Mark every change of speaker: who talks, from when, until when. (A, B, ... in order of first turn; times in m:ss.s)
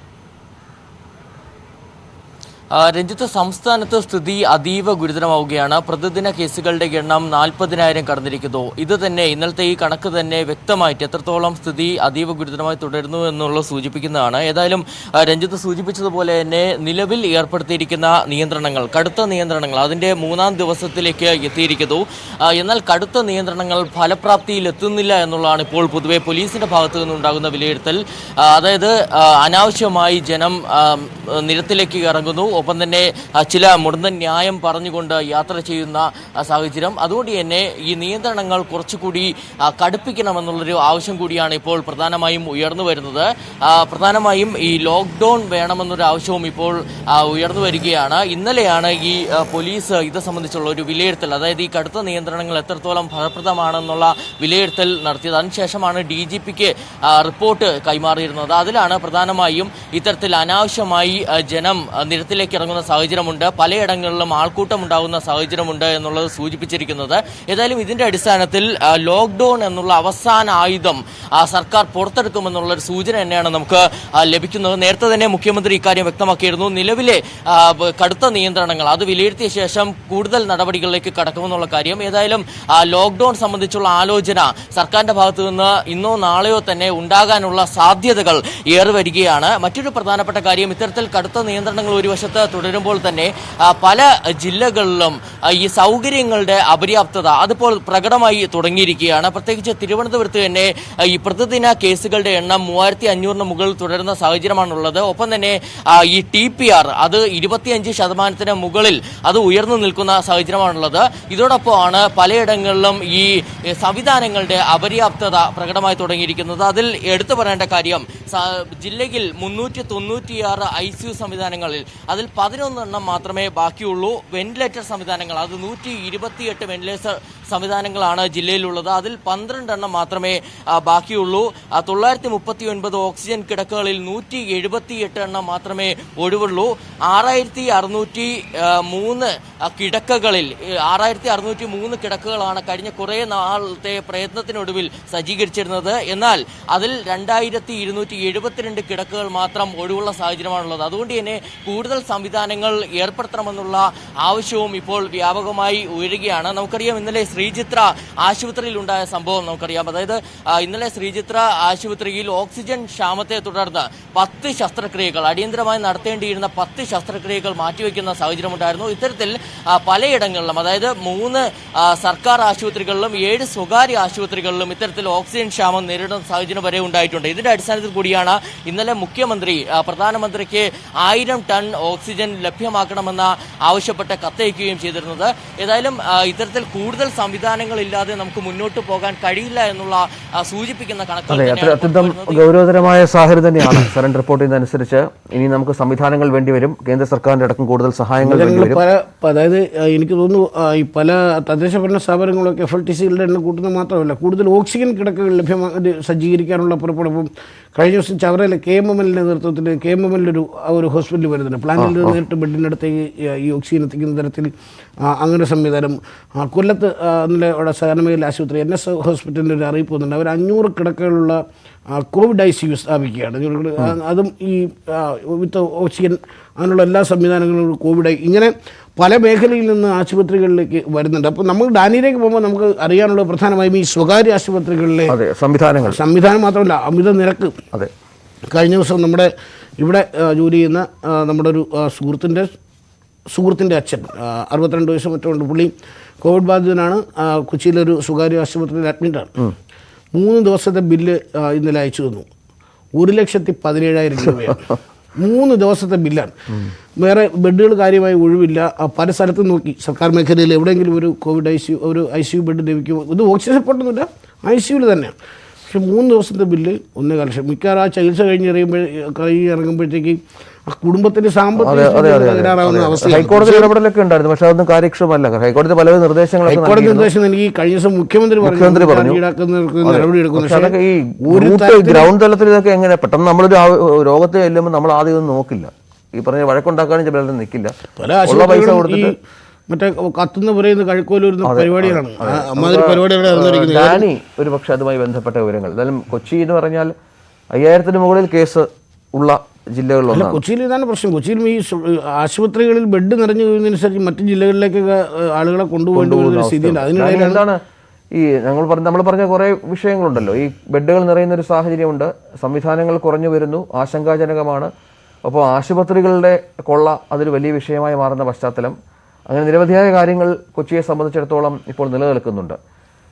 0:02.8-3:12.4 A
3:11.3-3:18.8 B
3:18.2-3:41.4 C
3:31.8-3:32.2 B
3:41.9-3:55.2 C
3:55.1-3:56.0 B
3:55.9-3:57.6 C
3:58.5-4:02.5 C
4:03.3-4:09.4 C
4:10.1-4:12.3 C
4:13.0-4:16.3 C
4:17.0-4:25.1 C
4:25.7-4:33.7 C
4:31.6-4:37.1 B
4:36.5-4:42.1 C
4:38.4-4:39.2 B
4:39.8-4:47.7 B
4:48.0-4:49.2 C
4:48.3-4:49.1 B
4:49.7-4:54.0 C
4:51.4-4:56.9 B
4:57.6-5:00.4 B
5:00.1-5:07.4 C
5:06.0-5:07.6 B
5:08.2-5:14.7 B
5:15.2-5:18.8 B
5:19.3-5:22.6 B